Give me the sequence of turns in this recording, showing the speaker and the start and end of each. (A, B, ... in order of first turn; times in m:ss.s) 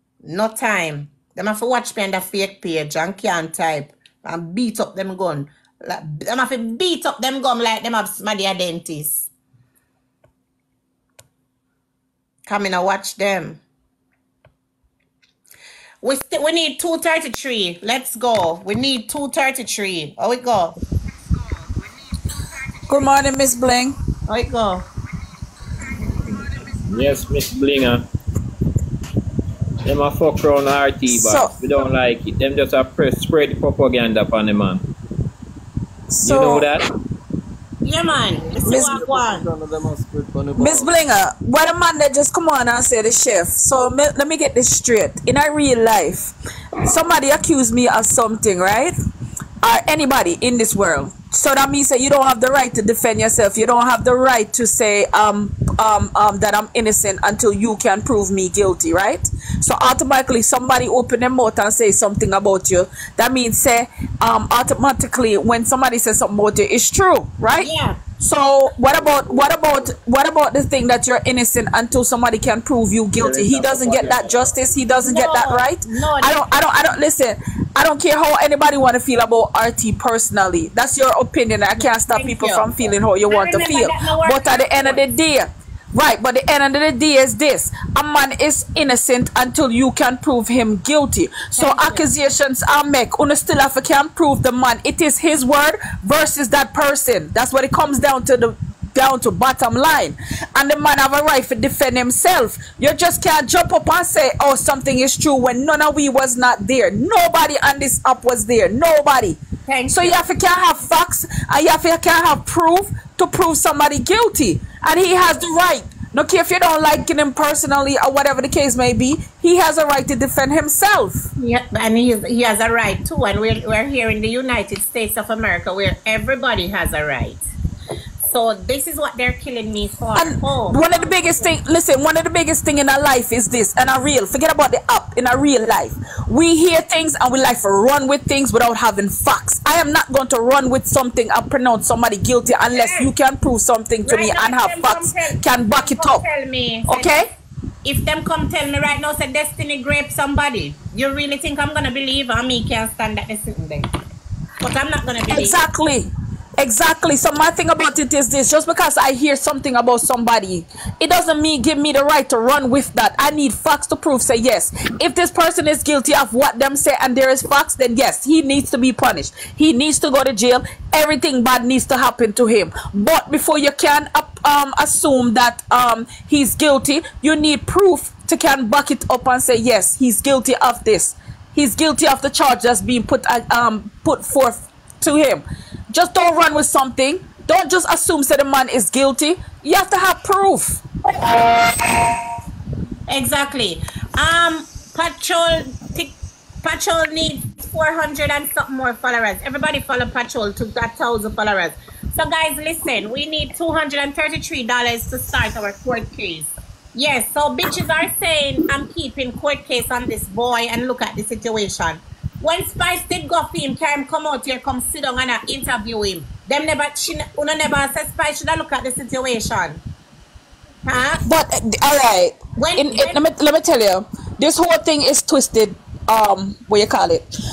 0:00.2-0:09.3 A
0:12.4-0:13.6 A
0:16.0-0:20.8 A
0:22.9-0:23.9 B
0:24.3-0:24.8 A
0:26.9-0:28.0 C
0:29.8-0:34.8 C
0:31.1-0:31.5 B
0:36.1-0:36.7 B
0:36.2-0:36.8 C
0:37.8-0:39.5 A
0:38.5-0:40.9 D
0:38.7-0:39.0 B
0:40.5-0:48.9 B
0:49.6-2:01.3 B
1:07.6-1:08.0 A
1:13.2-1:14.5 C
1:15.0-1:16.4 A
1:21.8-1:25.1 A
1:31.6-1:32.1 A
1:49.7-1:50.2 A
2:01.4-2:07.4 A
2:08.2-2:11.1 A
2:10.2-2:26.2 B
2:22.7-2:23.1 A
2:24.0-2:27.2 A
2:26.9-2:27.3 B
2:27.8-2:33.8 A
2:34.6-2:35.6 A
2:35.3-3:10.8 B
3:13.1-3:39.8 A
3:40.8-3:41.2 A
3:41.2-3:47.2 B
3:42.6-3:43.2 A